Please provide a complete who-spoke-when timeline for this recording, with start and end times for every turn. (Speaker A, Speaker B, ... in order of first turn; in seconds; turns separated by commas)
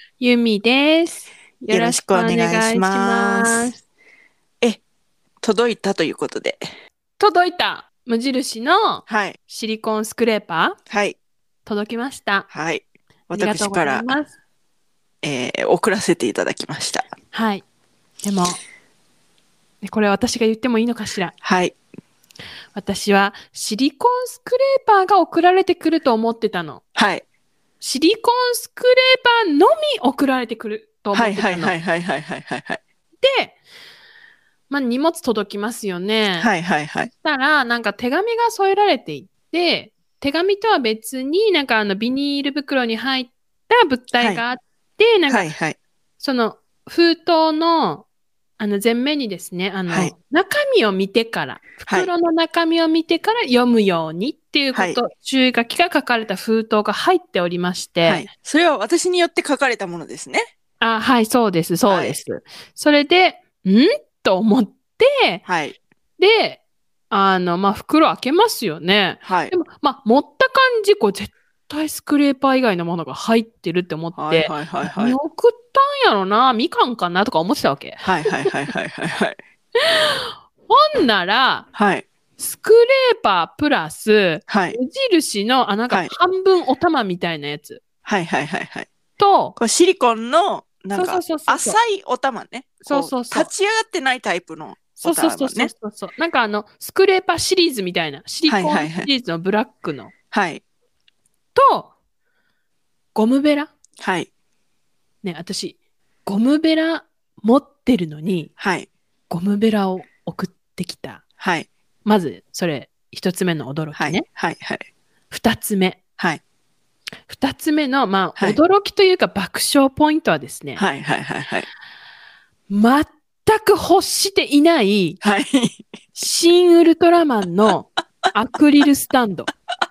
Speaker A: 0.2-3.8, Speaker B: 1.7-3.7, Speaker B: 5.4-6.6, Speaker A: 7.2-10.8, Speaker B: 9.1-9.4, Speaker B: 10.9-11.2, Speaker A: 11.7-12.5, Speaker B: 12.5-14.2, Speaker A: 13.3-14.3, Speaker B: 15.2-17.1, Speaker A: 17.3-17.6, Speaker A: 18.2-18.6, Speaker A: 19.8-21.4, Speaker B: 21.4-21.8, Speaker A: 22.8-26.8, Speaker B: 27.0-27.2, Speaker A: 27.8-31.8, Speaker B: 31.1-32.8, Speaker A: 33.2-33.6, Speaker A: 34.7-36.5, Speaker B: 36.4-37.1, Speaker A: 37.2-45.4, Speaker B: 45.3-45.8, Speaker A: 46.2-48.0, Speaker A: 48.6-58.3, Speaker B: 49.9-50.1, Speaker B: 54.7-55.0, Speaker B: 58.0-60.5, Speaker A: 60.8-65.4, Speaker B: 61.9-62.2, Speaker B: 65.5-65.8, Speaker A: 66.2-78.5, Speaker B: 69.2-69.5, Speaker B: 74.2-75.2, Speaker B: 78.0-79.4, Speaker A: 79.8-81.7, Speaker B: 81.7-82.1, Speaker A: 82.4-87.8, Speaker B: 84.5-84.8, Speaker B: 88.0-88.9, Speaker A: 89.2-89.6, Speaker B: 89.6-95.7, Speaker A: 90.9-91.8, Speaker A: 92.8-93.5, Speaker A: 95.0-100.1, Speaker B: 98.5-99.1, Speaker B: 100.3-100.6, Speaker A: 101.5-101.9, Speaker A: 103.2-103.7, Speaker B: 104.0-104.3, Speaker A: 105.2-108.5, Speaker B: 108.6-108.9, Speaker A: 109.3-111.2, Speaker B: 111.4-111.7, Speaker A: 112.0-114.2, Speaker B: 114.0-114.8, Speaker A: 115.3-116.0, Speaker A: 117.3-120.8, Speaker B: 120.8-121.7, Speaker A: 122.7-125.2, Speaker B: 125.2-125.8, Speaker A: 126.2-129.5